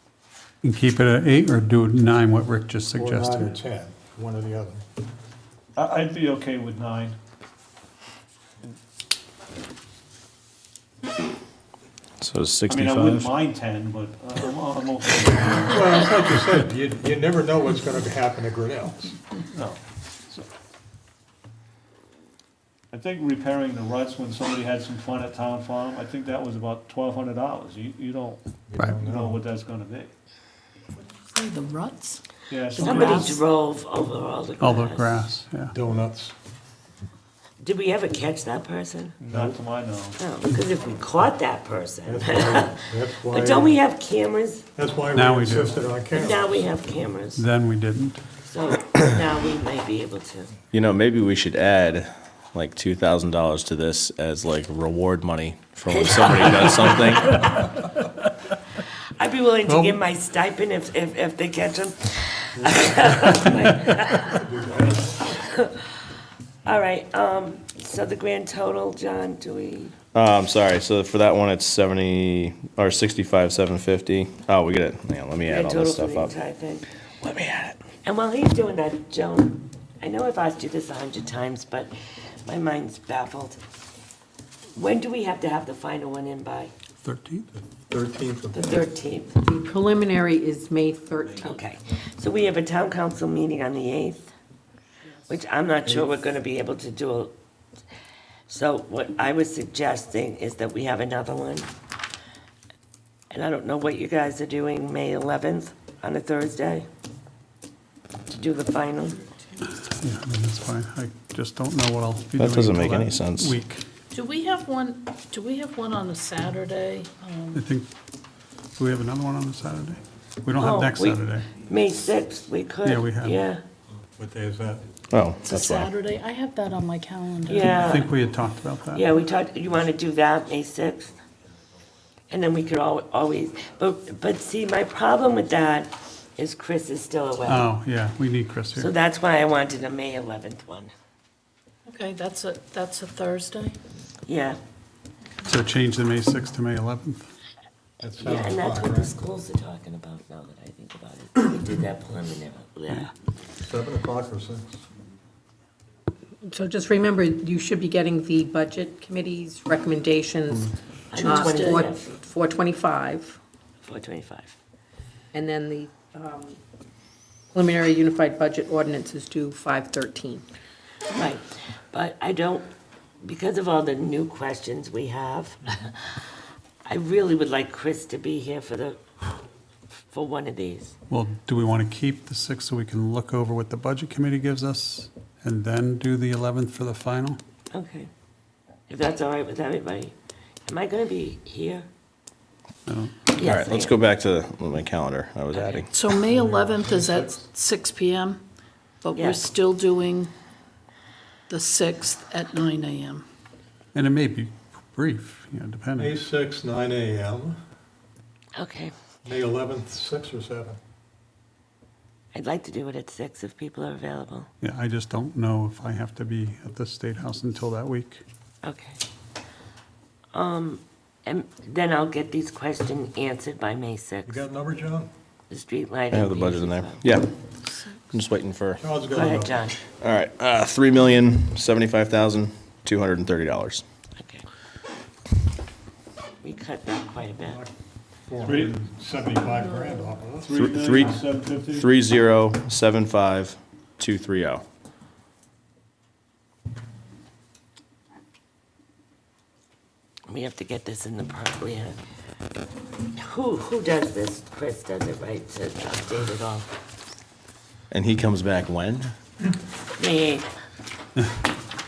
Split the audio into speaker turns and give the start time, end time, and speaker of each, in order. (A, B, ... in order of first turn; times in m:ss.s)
0:00.6-0:03.5 A
0:02.9-0:04.8 B
0:05.8-0:07.2 C
0:12.2-0:13.3 D
0:12.7-0:15.9 C
0:15.7-0:19.2 B
0:19.5-0:20.4 C
0:22.9-0:30.1 C
0:28.7-0:29.4 B
0:31.1-0:32.2 E
0:32.5-0:33.1 C
0:32.7-0:33.4 E
0:32.8-0:35.2 F
0:34.6-0:35.7 A
0:35.7-0:36.3 B
0:37.6-0:39.2 F
0:39.2-0:40.2 C
0:39.3-0:39.6 B
0:40.2-0:44.6 F
0:42.0-0:43.8 B
0:44.8-0:46.6 B
0:45.1-0:45.7 A
0:46.1-0:47.4 F
0:47.4-0:48.2 A
0:48.4-0:50.5 F
0:50.7-0:57.5 D
0:55.9-0:57.7 F
0:59.2-1:04.4 F
0:59.7-1:00.0 A
1:02.6-1:03.3 B
1:04.1-1:05.3 B
1:05.4-1:05.8 F
1:06.6-1:09.9 F
1:10.1-1:16.3 D
1:15.5-1:16.8 F
1:17.2-1:17.8 D
1:18.0-1:21.9 F
1:22.4-1:23.6 F
1:24.8-1:26.7 F
1:27.0-1:27.4 A
1:27.6-1:28.8 B
1:28.5-1:29.4 F
1:29.4-1:31.6 G
1:31.4-1:34.3 F
1:35.3-1:37.3 F
1:38.5-1:41.7 F
1:43.3-1:46.8 F
1:48.3-1:49.2 F
1:49.7-1:53.8 A
1:52.4-1:53.5 D
1:54.1-1:57.6 E
1:57.5-1:57.9 A
1:58.8-2:01.5 A
2:00.6-2:03.6 F
2:02.8-2:03.4 A
2:04.2-2:04.8 B
2:05.1-2:05.9 D
2:05.4-2:07.9 E
2:07.4-2:08.1 F
2:07.7-2:09.0 A
2:08.9-2:11.1 F
2:12.3-2:17.7 F
2:17.4-2:18.9 A
2:18.8-2:20.9 F
2:21.9-2:23.8 E
2:24.2-2:24.6 F
2:25.4-2:27.3 A
2:28.0-2:29.1 B
2:28.2-2:33.1 F
2:33.6-2:34.8 B
2:36.4-2:43.4 G
2:41.1-2:42.1 F
2:41.2-2:41.8 E
2:43.8-2:44.5 F
2:45.3-2:46.6 G
2:47.5-2:50.4 G
2:51.1-2:52.7 F
2:53.2-2:56.0 F
2:56.8-2:59.0 F
3:00.1-3:01.0 F
3:01.1-3:07.4 A
3:07.7-3:08.1 F
3:08.9-3:10.1 F
3:10.7-3:11.9 F
3:12.9-3:13.1 A
3:13.3-3:13.9 F
3:13.4-3:15.9 D
3:15.5-3:15.8 F
3:15.9-3:18.4 E
3:16.3-3:17.4 B
3:19.0-3:20.3 E
3:19.1-3:19.4 F
3:21.5-3:23.2 E
3:23.9-3:26.2 A
3:26.0-3:27.6 B
3:28.6-3:28.9 F
3:29.2-3:30.8 B
3:32.3-3:34.5 F
3:34.6-3:38.2 A
3:38.6-3:39.0 F
3:40.3-3:44.4 F
3:44.2-3:45.1 B
3:45.5-3:47.0 F
3:46.1-3:47.3 D
3:48.1-3:48.8 D
3:48.8-3:49.7 B
3:49.1-3:49.8 F
3:50.0-3:53.8 D
3:54.2-3:54.4 F
3:56.4-3:57.6 F
3:58.2-4:00.5 B
3:58.4-3:58.8 C
4:00.4-4:01.9 C
4:00.5-4:04.6 D
4:10.3-4:12.0 F
4:13.1-4:16.7 F
4:17.9-4:19.1 D
4:20.0-4:20.5 F